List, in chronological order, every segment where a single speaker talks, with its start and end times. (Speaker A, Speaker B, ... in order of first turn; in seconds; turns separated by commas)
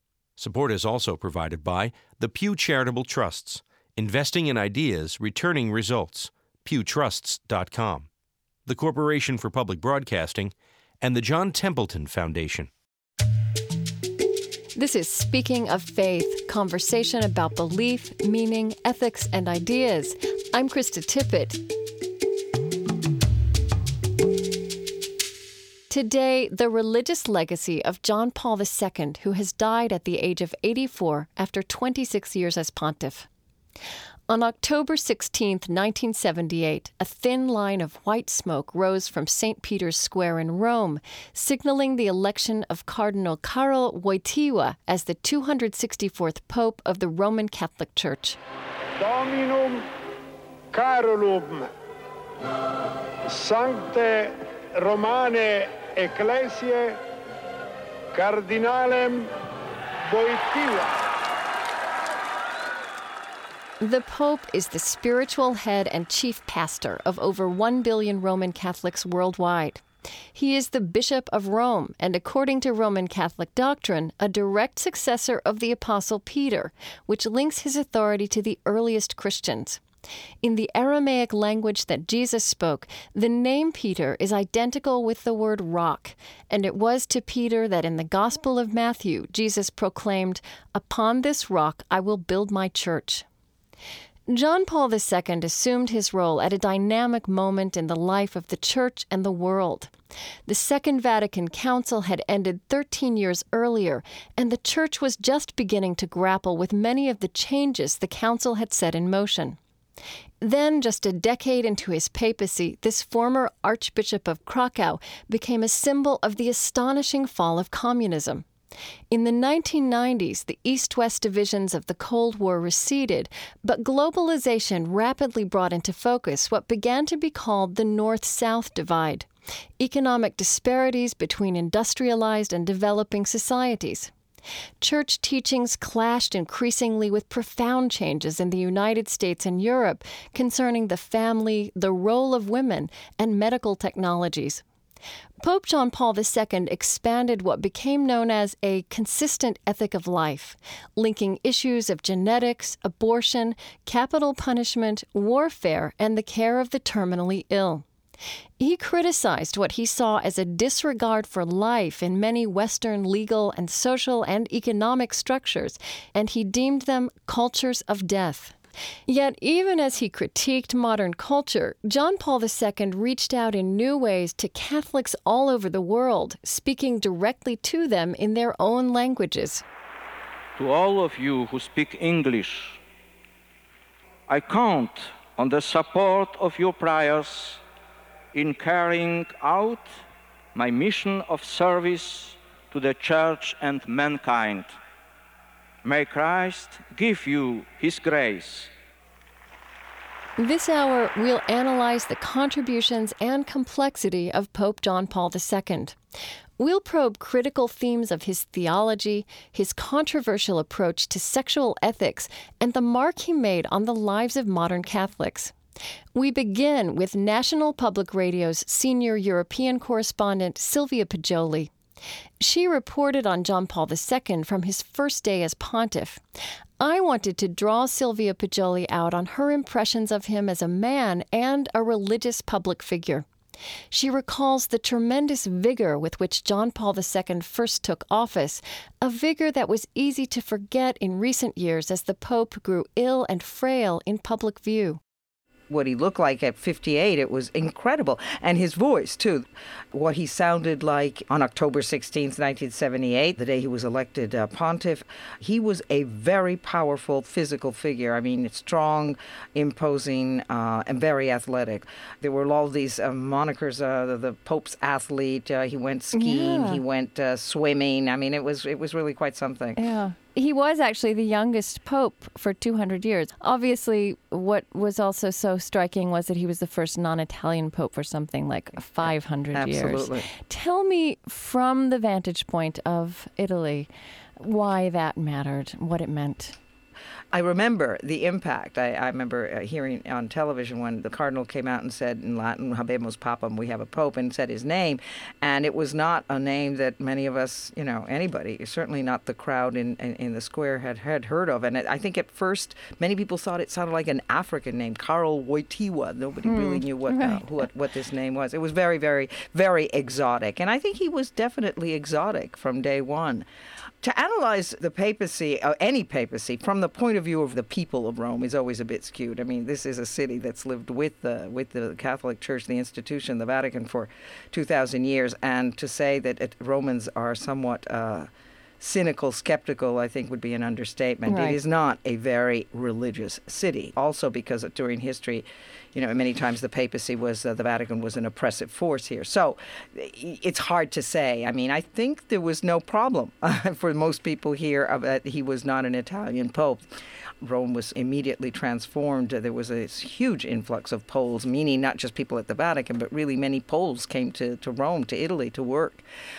Speaker A: 0.4-8.1, Speaker A: 8.7-12.7, Speaker B: 14.8-21.6, Speaker B: 25.9-33.3, Speaker B: 34.3-48.4, Speaker C: 49.0-49.8, Speaker C: 50.7-51.7, Speaker C: 53.3-57.0, Speaker C: 58.1-59.3, Speaker C: 60.1-61.0, Speaker B: 63.8-69.8, Speaker B: 70.3-79.8, Speaker B: 80.4-93.2, Speaker B: 94.3-99.9, Speaker B: 100.5-109.6, Speaker B: 110.4-118.5, Speaker B: 119.1-129.3, Speaker B: 129.8-134.1, Speaker B: 134.8-144.6, Speaker B: 145.4-157.8, Speaker B: 158.6-168.6, Speaker B: 169.1-179.6, Speaker D: 180.6-182.8, Speaker D: 184.3-187.6, Speaker D: 188.3-189.9, Speaker D: 190.5-194.8, Speaker D: 195.8-198.7, Speaker B: 200.4-206.0, Speaker B: 206.6-215.5, Speaker B: 216.1-221.7, Speaker B: 222.4-226.2, Speaker B: 226.8-233.2, Speaker B: 233.9-245.0, Speaker E: 245.7-269.8, Speaker B: 266.1-266.8, Speaker B: 269.8-286.6, Speaker E: 279.5-280.3, Speaker E: 287.3-313.4, Speaker B: 306.4-307.4, Speaker E: 314.0-328.3, Speaker E: 328.8-346.9, Speaker B: 331.3-331.6, Speaker E: 347.4-356.0